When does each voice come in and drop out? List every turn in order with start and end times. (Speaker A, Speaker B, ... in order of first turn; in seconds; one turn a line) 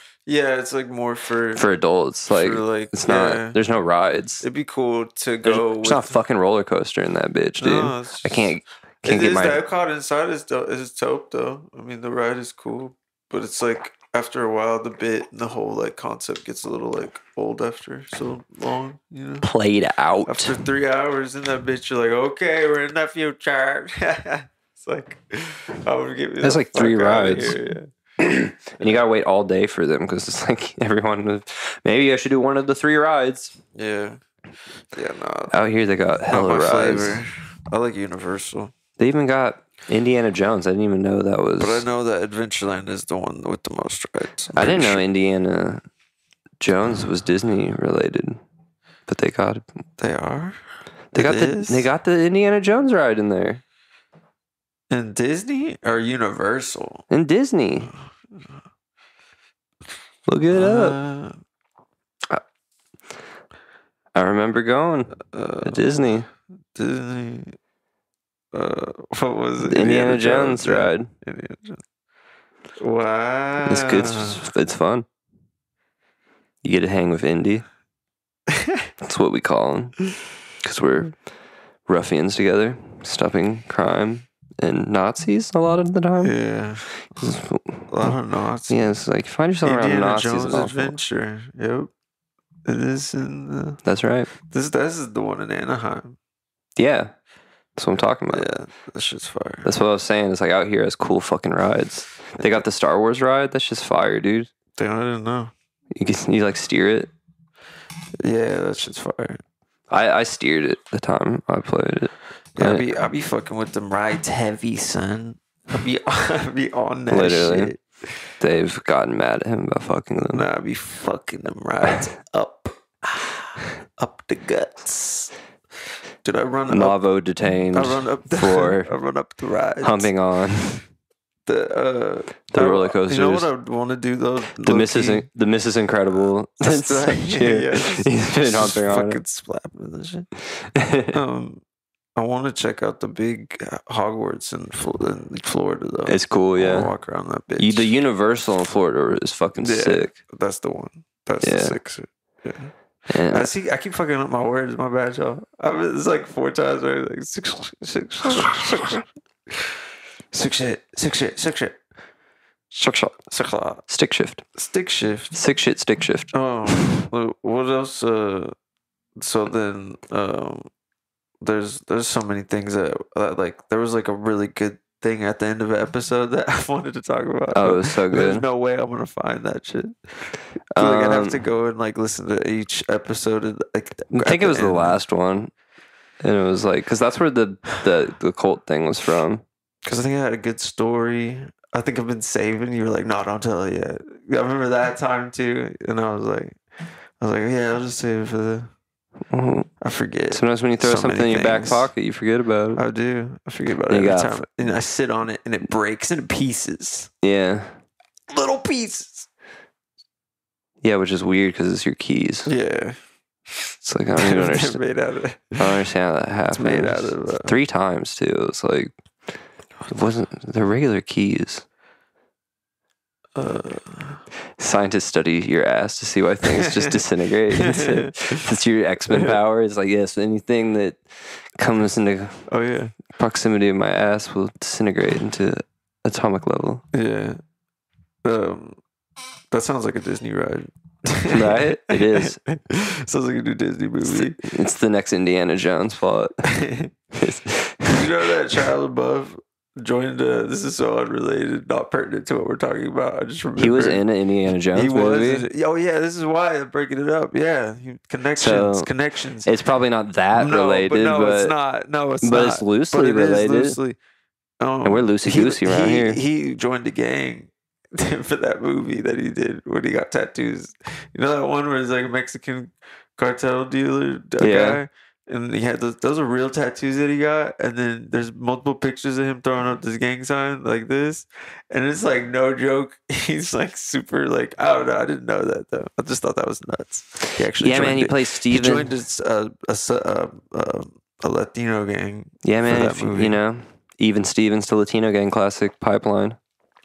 Speaker A: 0.2-1.7
Speaker B: 1.6-4.4
Speaker A: 2.3-3.6
Speaker A: 4.4-6.2
Speaker B: 5.4-9.6
Speaker A: 7.6-8.5
Speaker A: 9.0-19.5
Speaker B: 19.4-20.6
Speaker A: 20.2-27.9
Speaker B: 26.4-27.6
Speaker B: 28.2-33.5
Speaker A: 33.7-34.2
Speaker A: 34.9-35.5
Speaker B: 35.5-37.2
Speaker A: 36.3-38.7
Speaker B: 39.0-41.8
Speaker A: 41.6-45.0
Speaker B: 44.5-45.8
Speaker B: 46.6-48.4
Speaker B: 49.1-49.6
Speaker A: 50.0-50.6
Speaker B: 51.1-53.6
Speaker A: 51.1-51.9
Speaker A: 54.9-57.0
Speaker B: 57.1-57.9
Speaker B: 60.3-61.0
Speaker A: 60.5-61.4
Speaker B: 64.1-66.3
Speaker A: 65.3-66.0
Speaker A: 66.7-67.5
Speaker A: 68.5-71.8
Speaker B: 69.6-71.1
Speaker A: 72.8-74.4
Speaker B: 73.6-75.0
Speaker B: 76.6-77.6
Speaker B: 79.0-80.0
Speaker B: 80.6-81.1
Speaker B: 81.9-86.3
Speaker A: 86.2-87.2
Speaker B: 87.2-87.9
Speaker A: 87.9-88.8
Speaker B: 88.7-91.0
Speaker A: 89.6-91.9
Speaker A: 92.7-93.8
Speaker B: 93.8-94.3
Speaker A: 94.5-96.2
Speaker B: 96.8-97.1
Speaker B: 97.8-98.5
Speaker A: 98.3-99.7
Speaker B: 99.6-104.5
Speaker A: 104.8-105.5
Speaker B: 105.9-107.1
Speaker A: 108.2-109.4
Speaker B: 109.9-112.9
Speaker A: 112.6-118.1
Speaker B: 117.1-117.7
Speaker B: 118.4-120.5
Speaker A: 120.3-125.3
Speaker A: 126.2-127.0
Speaker B: 126.7-128.9
Speaker A: 127.7-130.1
Speaker B: 129.8-130.8
Speaker A: 131.4-135.2
Speaker B: 132.5-133.5
Speaker B: 134.6-139.2
Speaker A: 136.6-140.3
Speaker B: 140.7-141.1
Speaker A: 141.1-141.6
Speaker A: 142.2-147.9
Speaker B: 146.1-146.9
Speaker B: 147.6-150.1
Speaker A: 149.6-152.7
Speaker B: 151.4-151.8
Speaker B: 153.1-153.5
Speaker A: 153.2-159.7
Speaker A: 160.3-161.8
Speaker B: 162.7-163.2
Speaker A: 163.3-163.8
Speaker B: 163.9-164.4
Speaker A: 164.6-165.3
Speaker B: 165.3-166.3
Speaker A: 166.3-168.5
Speaker A: 169.2-170.7
Speaker A: 171.4-179.9
Speaker B: 177.5-178.4
Speaker B: 180.8-181.4
Speaker A: 180.8-185.0
Speaker B: 184.1-185.5
Speaker B: 186.2-189.4
Speaker A: 189.8-196.6
Speaker A: 197.2-198.7
Speaker B: 199.3-199.7
Speaker A: 199.8-201.9
Speaker B: 200.3-202.8
Speaker A: 202.7-207.1
Speaker B: 203.9-204.4
Speaker B: 207.2-207.7
Speaker A: 208.3-209.3
Speaker B: 210.8-212.5
Speaker A: 212.4-213.0
Speaker B: 213.8-214.8
Speaker A: 214.2-215.7
Speaker B: 215.6-218.9
Speaker A: 216.5-217.6
Speaker B: 219.9-221.6
Speaker A: 223.3-224.2
Speaker B: 224.6-231.0
Speaker A: 226.5-227.0
Speaker A: 227.5-228.4
Speaker B: 231.5-232.5
Speaker A: 232.5-232.9
Speaker B: 233.1-236.8
Speaker A: 236.9-237.4
Speaker A: 238.2-238.8
Speaker A: 239.5-244.4
Speaker B: 241.3-242.4
Speaker B: 244.0-246.4
Speaker A: 246.4-246.9
Speaker B: 247.2-248.0
Speaker A: 247.8-254.0
Speaker B: 253.6-255.4
Speaker A: 254.7-259.5
Speaker B: 258.4-258.9
Speaker B: 259.4-261.5
Speaker A: 260.3-264.0
Speaker B: 262.2-263.8
Speaker A: 264.6-293.4
Speaker B: 264.8-266.2
Speaker B: 274.4-274.8
Speaker B: 287.6-288.9
Speaker B: 292.4-296.4